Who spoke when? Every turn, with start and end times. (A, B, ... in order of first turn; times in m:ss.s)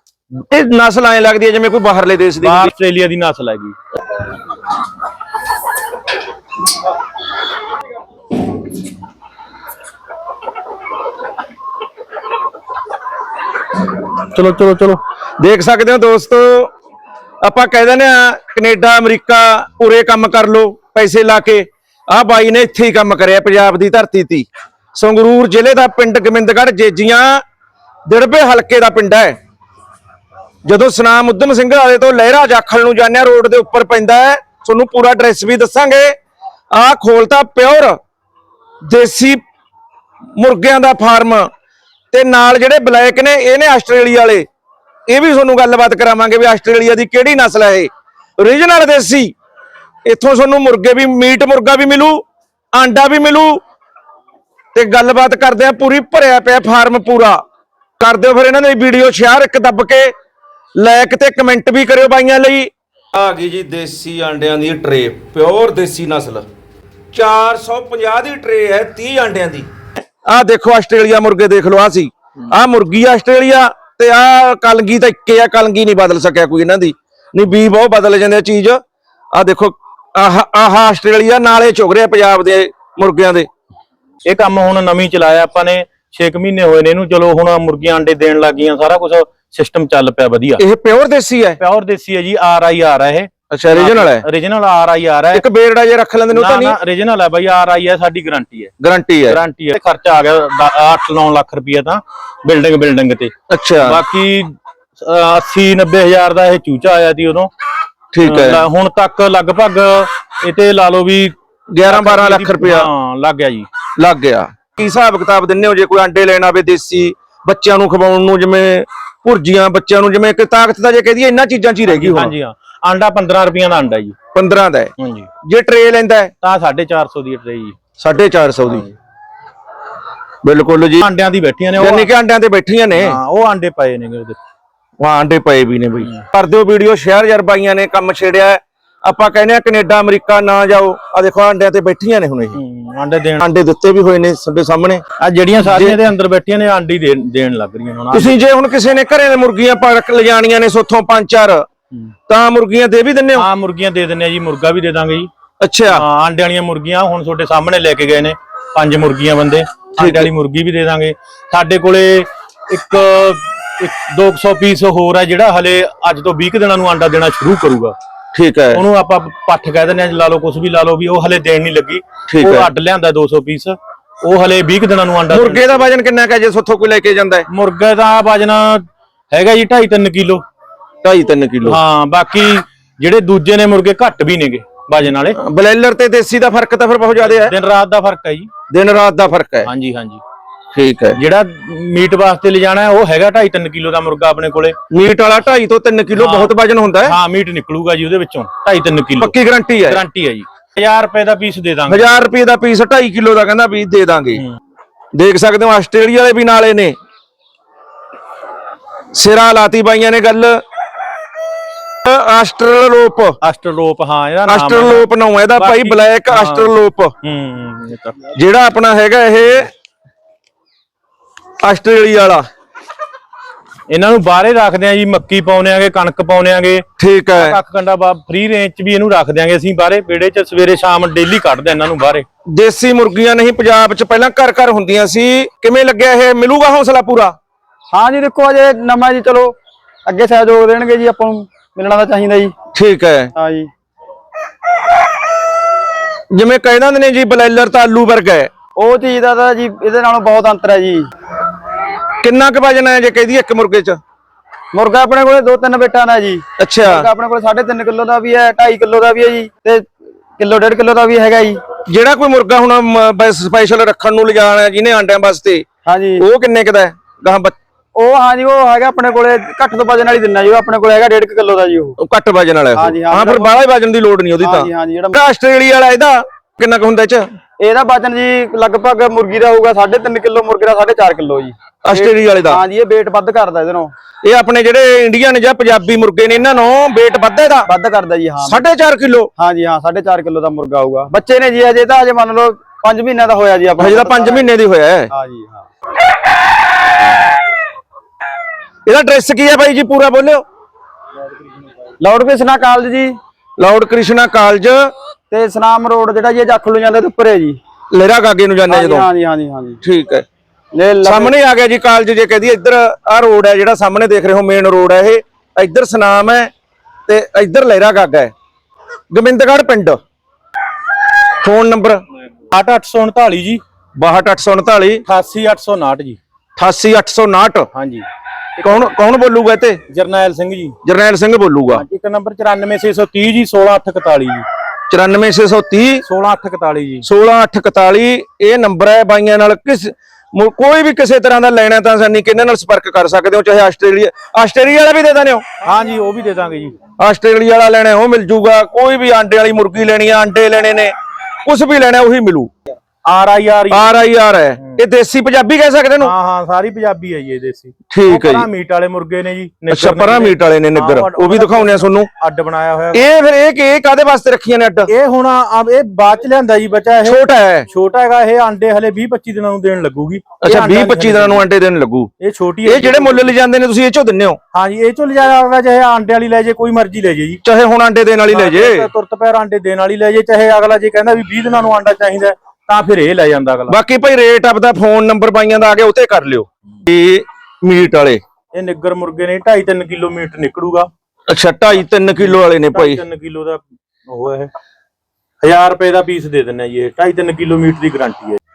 0:00.5-0:02.7 A
0:02.4-0:03.8 B
0:14.2-0:15.0 B
0:15.4-0:16.7 A
0:17.4-0:27.4 A
0:28.1-0:29.4 A
0:30.6-0:36.2 A
0:36.7-0:38.0 A
0:38.9-0:39.4 A
0:40.4-0:41.5 A
0:42.1-0:44.5 A
0:45.1-0:49.3 A
0:50.0-0:52.2 A
0:52.7-0:53.6 A
0:54.8-0:57.4 A
0:58.0-1:00.1 A
1:00.8-1:06.5 A
1:07.1-1:09.7 A
1:10.3-1:18.8 A
1:19.3-1:23.5 A
1:24.2-1:30.6 B
1:30.6-1:31.6 A
1:31.6-1:35.4 B
1:33.5-1:34.3 A
1:35.3-1:36.8 A
1:36.3-1:38.7 B
1:38.8-1:39.4 A
1:39.3-1:47.5 B
1:43.5-1:44.0 A
1:48.1-1:48.6 A
1:48.2-1:53.7 B
1:51.7-1:52.9 A
1:54.0-2:02.3 A
2:01.9-2:04.2 B
2:04.3-2:04.9 A
2:05.0-2:05.3 B
2:05.4-2:06.3 A
2:06.4-2:07.8 B
2:08.0-2:08.9 A
2:10.4-2:11.1 A
2:11.0-2:12.1 B
2:11.8-2:13.2 A
2:13.0-2:14.4 B
2:15.0-2:22.6 A
2:22.6-2:23.5 B
2:23.4-2:25.0 A
2:25.2-2:28.3 B
2:25.6-2:26.0 A
2:28.1-2:31.6 A
2:32.3-2:33.5 A
2:33.4-2:35.3 B
2:35.6-2:36.0 A
2:35.9-2:48.0 B
2:40.0-2:40.3 A
2:48.3-2:48.8 A
2:48.7-2:55.9 B
2:52.3-2:52.7 A
2:55.3-2:57.5 A
2:57.5-3:00.4 B
3:01.0-3:01.8 A
3:01.6-3:05.4 B
3:05.4-3:07.5 A
3:07.2-3:08.5 B
3:08.7-3:09.7 A
3:09.7-3:10.2 B
3:10.7-3:11.2 A
3:11.2-3:14.8 B
3:14.9-3:17.2 A
3:16.2-3:16.5 B
3:17.0-3:19.3 B
3:19.2-3:20.0 A
3:19.9-3:22.2 B
3:21.9-3:24.4 A
3:25.2-3:27.0 A
3:29.1-3:30.6 A
3:32.0-3:33.4 A
3:33.4-3:38.2 B
3:34.5-3:37.1 A
3:38.3-3:39.7 A
3:41.6-3:42.4 A
3:43.9-3:46.8 B
3:47.0-3:47.6 A
3:47.4-3:52.3 B
3:52.5-3:57.3 A
3:57.9-4:02.5 C
4:02.7-4:03.3 A
4:03.4-4:03.7 C
4:06.3-4:08.5 A
4:08.8-4:11.1 C
4:12.2-4:14.0 A
4:14.7-4:21.6 C
4:16.6-4:17.1 A
4:21.9-4:25.6 A
4:25.8-4:26.3 C
4:26.2-4:27.5 A
4:28.0-4:32.0 C
4:32.0-4:37.3 A
4:32.8-4:33.6 C
4:34.4-4:35.2 C
4:37.6-4:43.9 C
4:41.8-4:42.6 A
4:44.2-4:47.7 A
4:47.7-4:48.6 C
4:48.4-4:49.3 A
4:49.4-4:54.5 C
4:53.8-4:55.1 A
4:55.1-4:55.7 C
4:58.9-5:00.4 A
5:02.0-5:03.2 C
5:03.6-5:04.9 A
5:05.3-5:07.6 C
5:07.9-5:09.1 A
5:08.7-5:09.8 C
5:09.8-5:10.2 A
5:10.7-5:11.4 C
5:11.0-5:16.5 A
5:17.1-5:18.3 A
5:19.1-5:20.0 A
5:21.4-5:22.0 A
5:22.5-5:23.6 B
5:24.0-5:25.0 A
5:25.1-5:26.2 B
5:26.6-5:27.7 A
5:27.7-5:28.1 B
5:28.6-5:28.9 B
5:28.6-5:29.8 A
5:29.9-5:30.8 B
5:30.8-5:31.8 A
5:31.7-5:34.4 B
5:34.9-5:36.0 A
5:36.0-5:37.1 B
5:37.0-5:45.4 A
5:45.6-5:46.8 B
5:47.0-5:50.9 A
5:51.4-5:52.5 A
5:53.1-5:54.0 B
5:53.7-5:56.1 A
5:56.0-6:03.1 B
5:57.9-5:58.5 A
5:59.7-6:02.1 A
6:02.9-6:04.9 A
6:04.9-6:07.2 B
6:07.0-6:07.7 A
6:07.7-6:11.4 B
6:10.4-6:12.1 A
6:12.2-6:13.3 B
6:12.6-6:14.4 A
6:14.5-6:17.4 B
6:17.4-6:18.9 A
6:18.3-6:23.8 B
6:23.7-6:28.2 A
6:28.5-6:30.9 B
6:31.3-6:33.0 A
6:32.2-6:34.5 B
6:35.4-6:38.4 B